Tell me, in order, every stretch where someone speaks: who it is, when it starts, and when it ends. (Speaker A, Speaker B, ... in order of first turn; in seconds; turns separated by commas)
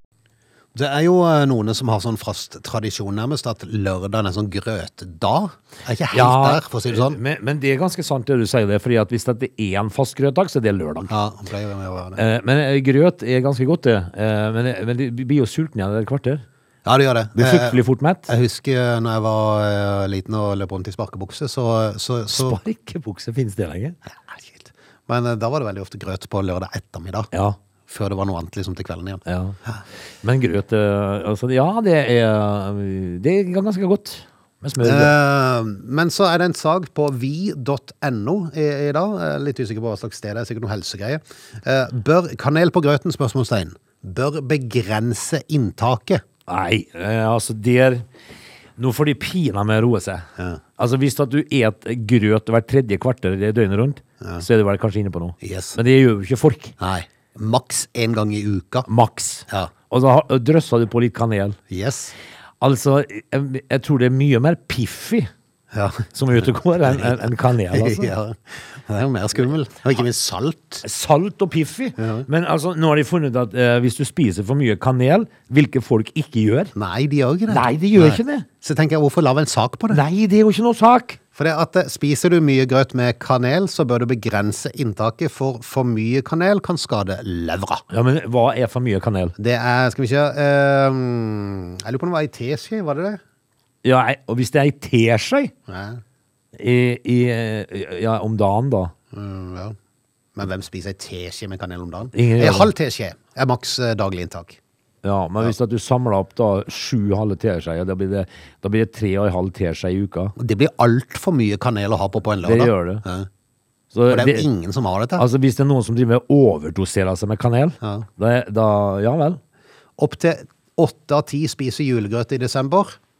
Speaker A: 0.7-7.2, Speaker B: 6.1-11.1, Speaker A: 11.1-12.2, Speaker B: 12.2-16.4, Speaker A: 16.8-22.6, Speaker B: 17.4-18.3, Speaker B: 22.3-24.0, Speaker A: 24.2-27.3, Speaker B: 27.3-27.6, Speaker A: 27.9-29.8, Speaker B: 29.2-29.6, Speaker B: 30.2-35.1, Speaker A: 34.8-46.2, Speaker B: 46.5-48.0, Speaker B: 48.8-50.3, Speaker B: 50.8-56.7, Speaker A: 55.4-55.8, Speaker A: 56.8-58.9, Speaker B: 58.9-61.6, Speaker A: 61.7-62.1, Speaker B: 62.6-65.3, Speaker A: 65.7-66.1, Speaker B: 66.1-68.1, Speaker A: 66.8-70.8, Speaker B: 70.8-76.7, Speaker A: 72.0-72.3, Speaker A: 76.7-80.0, Speaker B: 77.5-78.5, Speaker B: 79.9-81.2, Speaker A: 81.3-87.8, Speaker B: 87.9-89.3, Speaker A: 89.4-93.2, Speaker B: 93.8-95.5, Speaker A: 95.7-96.0, Speaker B: 96.5-98.9, Speaker A: 99.1-99.8, Speaker A: 100.3-104.6, Speaker B: 102.1-102.7, Speaker B: 105.0-110.3, Speaker A: 110.4-113.3, Speaker B: 112.4-113.0, Speaker B: 113.9-114.5, Speaker A: 114.1-115.2, Speaker B: 115.2-119.4, Speaker A: 117.8-118.1, Speaker A: 120.0-123.0